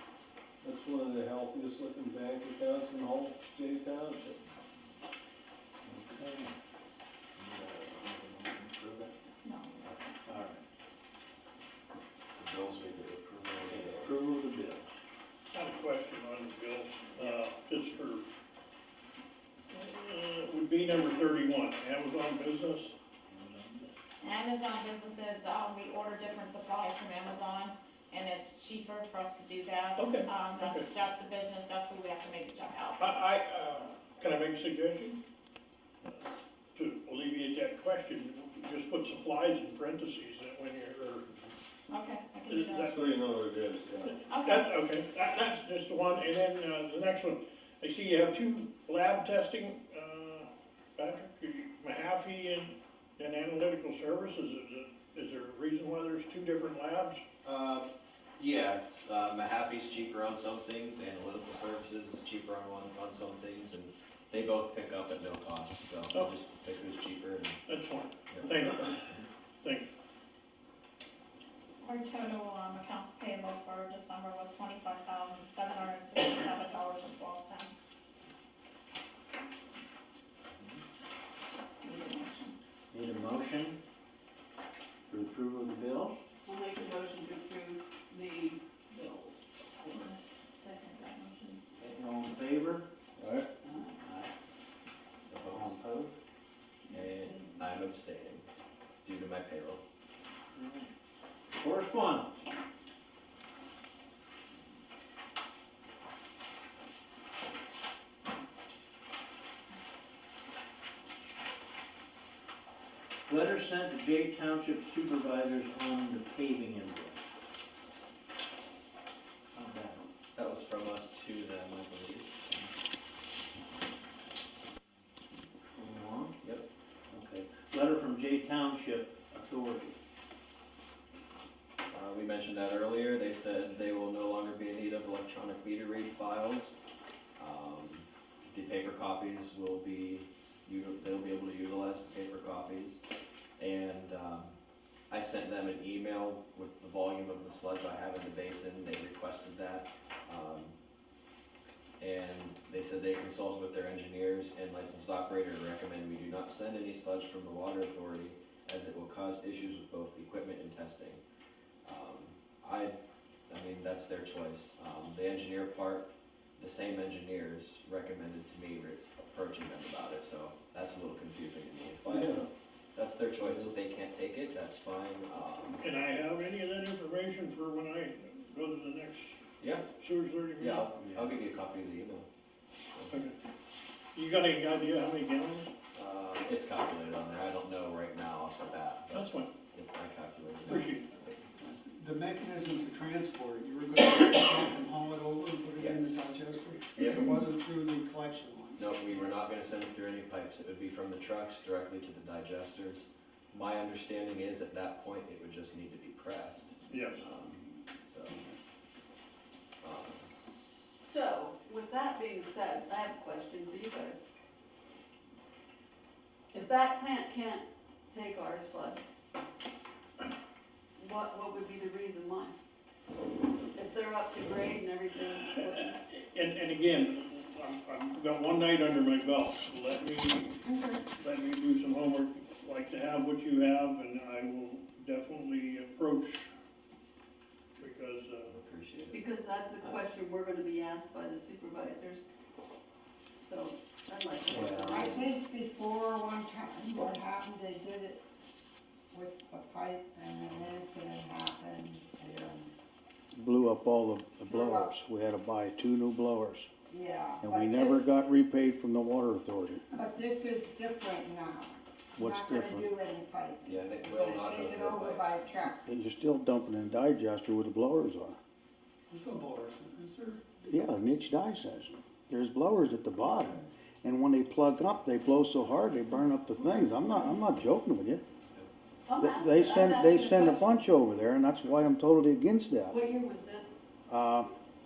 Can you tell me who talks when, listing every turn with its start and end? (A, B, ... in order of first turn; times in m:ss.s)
0:00.6-0:04.5 A
0:05.8-0:06.5 B
0:09.4-0:10.2 C
0:10.3-0:10.6 B
0:12.4-0:14.2 D
0:13.7-0:14.9 B
0:15.5-0:18.2 E
0:19.7-0:22.9 E
0:23.3-0:23.9 B
0:24.2-0:33.2 C
0:30.0-0:30.9 E
0:33.0-0:35.2 E
0:36.8-0:41.2 E
0:41.9-0:42.9 C
0:42.5-0:43.0 E
0:42.9-0:44.2 A
0:44.3-0:44.7 C
0:44.4-0:57.2 E
0:57.4-1:07.6 D
1:07.7-1:09.9 E
1:11.8-1:17.8 C
1:21.8-1:22.6 C
1:22.9-1:23.8 B
1:25.1-1:26.2 B
1:26.4-1:30.1 F
1:30.7-1:31.2 C
1:31.8-1:33.4 B
1:34.0-1:34.3 B
1:35.3-1:35.7 D
1:35.5-1:36.1 B
1:36.9-1:37.7 C
1:36.9-1:38.5 D
1:39.0-1:39.8 D
1:40.6-1:40.9 B
1:41.6-1:42.4 B
1:53.3-1:57.2 B
1:59.5-2:00.0 B
2:00.4-2:02.3 D
2:05.8-2:06.3 B
2:07.1-2:10.0 B
2:11.9-2:16.8 D
2:17.4-2:23.0 D
2:23.6-2:24.6 D
2:25.1-2:30.8 D
2:32.0-2:41.2 D
2:41.8-2:43.0 D
2:43.5-2:52.4 D
2:52.1-2:52.5 A
2:52.9-2:55.8 D
2:53.4-2:53.7 A
2:55.8-2:59.4 E
2:59.6-2:59.9 D
3:00.0-3:01.0 E
3:00.6-3:02.3 D
3:01.0-3:01.3 B
3:03.1-3:03.4 E
3:04.2-3:05.7 E
3:05.9-3:11.4 D
3:09.1-3:09.5 E
3:10.7-3:11.1 E
3:11.6-3:19.1 G
3:15.8-3:16.4 D
3:17.0-3:17.4 D
3:18.8-3:28.5 D
3:26.9-3:27.2 E
3:29.8-3:30.3 D
3:30.9-3:34.2 F
3:36.5-3:39.0 F
3:41.0-3:42.5 F
3:43.8-3:46.0 F
3:45.5-3:50.6 E
3:50.6-3:51.0 F
3:51.1-3:56.5 E
3:57.8-3:58.5 E
3:58.5-3:59.2 D
3:59.1-4:02.2 F
4:03.4-4:05.2 F
4:04.5-4:05.1 D
4:04.9-4:08.2 H
4:09.1-4:12.7 H
4:13.4-4:16.7 I
4:14.4-4:14.9 H
4:16.9-4:18.3 H
4:17.4-4:19.8 I
4:19.9-4:25.9 H
4:22.2-4:22.9 I
4:23.6-4:25.5 D
4:25.9-4:28.4 I
4:29.1-4:30.4 G
4:30.7-4:38.2 I
4:39.1-4:40.8 F
4:39.2-4:43.0 I
4:42.9-4:43.8 F
4:44.1-4:44.5 I